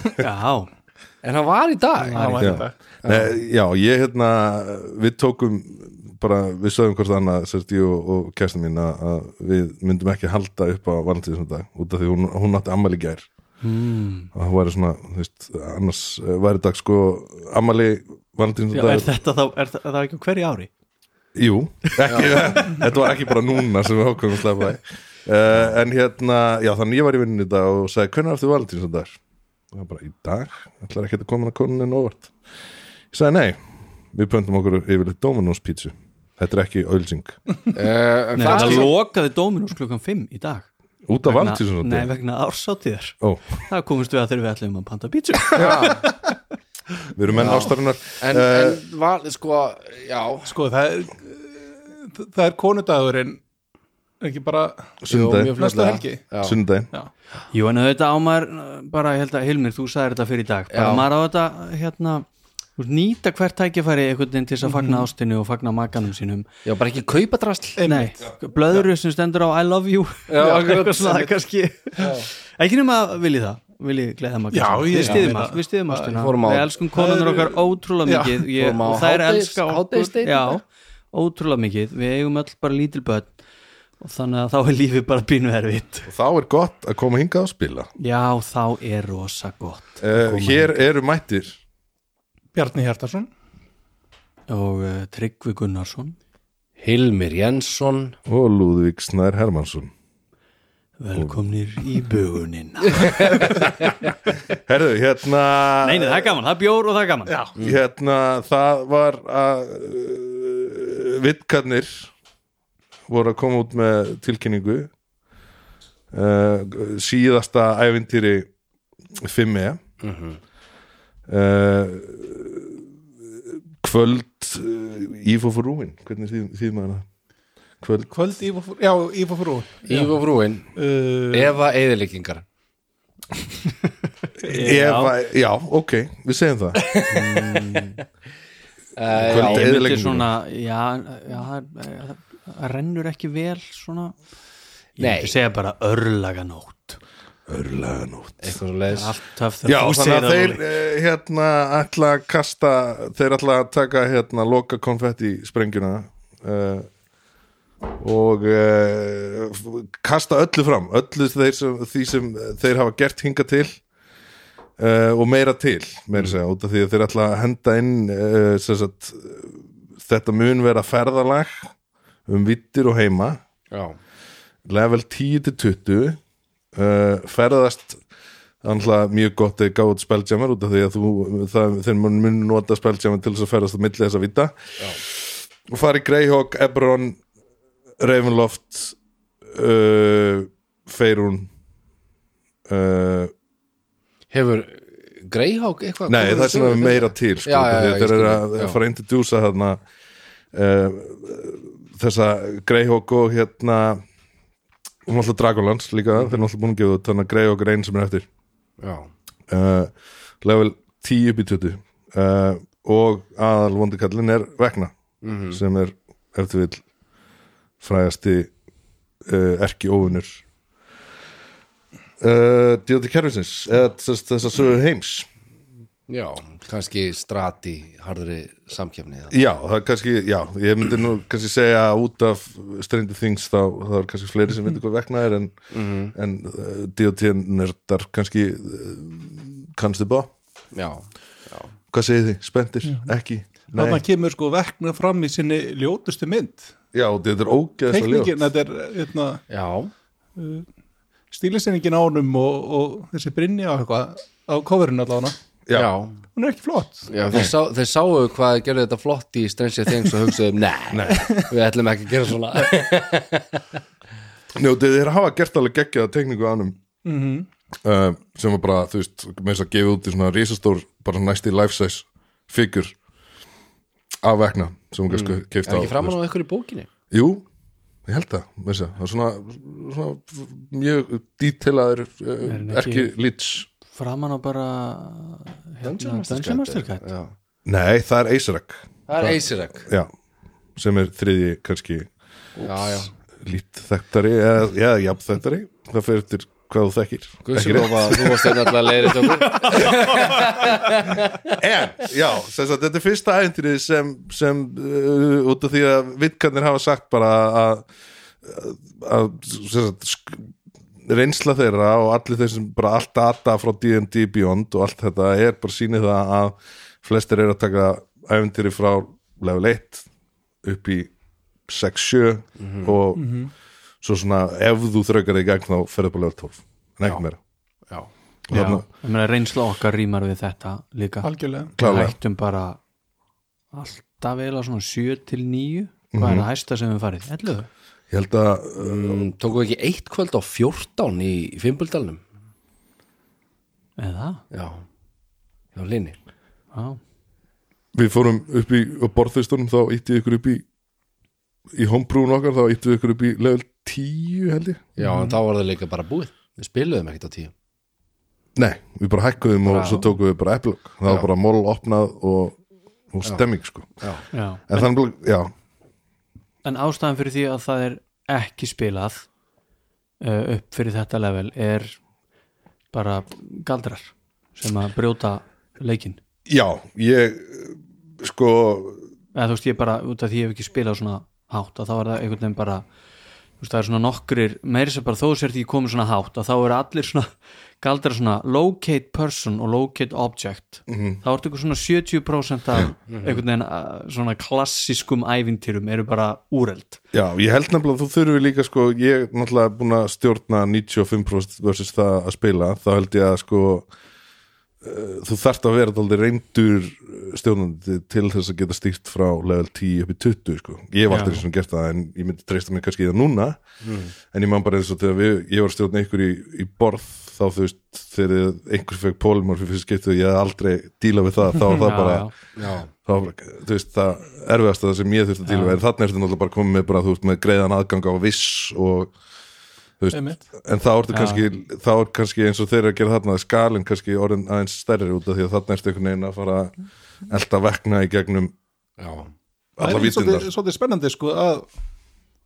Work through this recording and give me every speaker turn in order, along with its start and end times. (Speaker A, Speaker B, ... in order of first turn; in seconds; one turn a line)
Speaker A: 0.2-0.7
Speaker B: 1.2-3.3
Speaker A: 2.0-2.6
Speaker C: 2.1-2.8
Speaker D: 2.4-13.3
Speaker A: 13.6-14.3
Speaker D: 14.3-19.1
Speaker A: 18.7-20.7
Speaker D: 21.3-29.2
Speaker B: 22.1-22.4
Speaker D: 29.7-32.3
Speaker D: 33.1-37.4
Speaker B: 37.7-38.9
Speaker A: 38.4-40.7
Speaker D: 41.1-42.1
Speaker A: 41.2-46.0
Speaker B: 45.5-46.0
Speaker D: 47.1-48.8
Speaker B: 47.3-50.5
Speaker C: 50.5-53.4
Speaker C: 54.2-55.0
Speaker D: 55.0-55.5
Speaker B: 55.1-56.6
Speaker C: 55.5-56.2
Speaker D: 56.4-56.9
Speaker A: 57.5-62.2
Speaker B: 60.7-61.0
Speaker A: 62.8-66.5
Speaker C: 64.6-65.1
Speaker B: 66.6-67.8
Speaker C: 67.8-68.8
Speaker A: 67.8-83.3
Speaker B: 70.3-71.2
Speaker C: 72.0-72.2
Speaker C: 74.5-76.1
Speaker B: 75.0-75.2
Speaker B: 76.1-76.7
Speaker C: 76.9-78.5
Speaker B: 78.6-80.6
Speaker A: 84.0-86.1
Speaker D: 86.1-87.9
Speaker A: 88.0-90.8
Speaker D: 90.0-91.6
Speaker C: 92.5-93.3
Speaker A: 94.5-96.2
Speaker B: 96.8-98.2
Speaker D: 98.2-99.9
Speaker A: 101.0-103.6
Speaker B: 103.0-103.6
Speaker D: 104.7-106.3
Speaker A: 105.8-107.4
Speaker C: 107.3-107.5
Speaker D: 107.6-112.1
Speaker D: 113.1-114.9
Speaker D: 116.1-118.5
Speaker D: 119.2-119.8
Speaker B: 120.0-120.4
Speaker D: 121.3-122.8
Speaker D: 123.5-127.0
Speaker D: 127.8-128.1
Speaker C: 128.1-130.1
Speaker B: 129.8-130.7
Speaker C: 130.8-131.5
Speaker B: 131.3-132.4
Speaker A: 134.4-135.1
Speaker D: 134.5-136.9
Speaker B: 136.8-137.6
Speaker A: 137.1-138.0
Speaker B: 139.0-139.7
Speaker D: 139.2-140.3
Speaker A: 139.3-144.2
Speaker A: 144.9-147.0
Speaker B: 145.0-145.3
Speaker D: 147.5-148.6
Speaker B: 148.4-149.1
Speaker A: 148.9-150.6
Speaker D: 149.6-156.9
Speaker D: 158.0-163.8
Speaker D: 164.8-171.7
Speaker D: 172.3-173.4
Speaker B: 173.7-174.0
Speaker D: 174.7-176.2
Speaker D: 176.7-178.0
Speaker D: 178.6-187.2
Speaker D: 188.0-189.0
Speaker D: 189.5-191.5
Speaker D: 192.7-193.3
Speaker B: 194.3-198.8
Speaker D: 196.1-199.8
Speaker D: 200.5-204.0
Speaker D: 205.1-208.2
Speaker B: 206.1-206.4
Speaker B: 208.8-209.1
Speaker D: 209.5-214.9
Speaker B: 215.2-215.6
Speaker D: 215.5-216.8
Speaker D: 217.8-218.5
Speaker D: 219.2-220.4
Speaker D: 222.2-225.3
Speaker B: 226.1-229.3
Speaker D: 229.3-240.3
Speaker B: 235.7-236.1
Speaker B: 240.7-241.7
Speaker D: 241.9-244.0
Speaker C: 242.8-243.1
Speaker C: 243.7-246.7
Speaker D: 246.9-248.4
Speaker C: 247.9-249.4
Speaker B: 249.5-249.9
Speaker C: 250.3-250.7
Speaker C: 251.3-255.4
Speaker B: 255.7-256.1
Speaker C: 256.4-257.1
Speaker B: 257.1-263.6
Speaker D: 260.9-261.3
Speaker C: 261.2-261.4
Speaker D: 264.5-266.8
Speaker C: 267.0-267.5
Speaker D: 267.8-272.9
Speaker D: 274.2-276.1
Speaker B: 275.1-276.9
Speaker D: 277.1-277.4
Speaker D: 278.1-283.7
Speaker A: 282.4-283.1
Speaker A: 283.9-287.0
Speaker B: 285.8-287.3
Speaker D: 287.6-290.1
Speaker B: 289.1-289.9
Speaker D: 290.8-292.1
Speaker B: 292.6-293.1
Speaker D: 293.4-299.1
Speaker B: 297.4-301.6
Speaker A: 299.5-300.4
Speaker D: 301.5-307.9
Speaker D: 308.4-310.5
Speaker D: 311.0-320.0
Speaker D: 320.6-321.1
Speaker D: 321.6-323.3
Speaker B: 322.6-322.9
Speaker C: 323.1-323.5
Speaker D: 324.0-327.4
Speaker D: 328.5-328.8
Speaker A: 328.5-332.8
Speaker C: 331.2-331.7
Speaker D: 331.8-332.1
Speaker A: 333.7-337.7
Speaker D: 336.1-336.5
Speaker D: 338.1-339.2
Speaker B: 338.8-342.2
Speaker A: 344.0-344.4
Speaker B: 344.5-344.8
Speaker B: 345.7-346.1
Speaker A: 346.7-347.0
Speaker D: 347.9-350.6
Speaker D: 351.7-354.8
Speaker B: 355.0-357.5
Speaker C: 355.0-355.4
Speaker D: 358.5-362.6
Speaker B: 359.6-360.0
Speaker D: 363.1-364.1
Speaker A: 364.3-364.9
Speaker D: 364.7-365.5
Speaker A: 366.6-369.3
Speaker A: 370.2-372.0
Speaker A: 372.9-376.2
Speaker D: 376.5-379.0
Speaker A: 379.3-382.8
Speaker A: 383.6-387.3
Speaker A: 387.8-397.0
Speaker D: 390.9-391.2
Speaker B: 393.1-393.4
Speaker D: 397.1-403.9
Speaker D: 404.8-429.1
Speaker A: 411.1-411.4
Speaker B: 413.8-414.1
Speaker A: 421.8-422.3
Speaker B: 422.6-422.9
Speaker A: 425.4-425.8
Speaker D: 430.0-436.7
Speaker C: 430.1-430.4
Speaker A: 431.1-431.4
Speaker D: 437.3-438.5
Speaker B: 439.0-439.3
Speaker D: 439.8-440.5
Speaker C: 439.8-441.7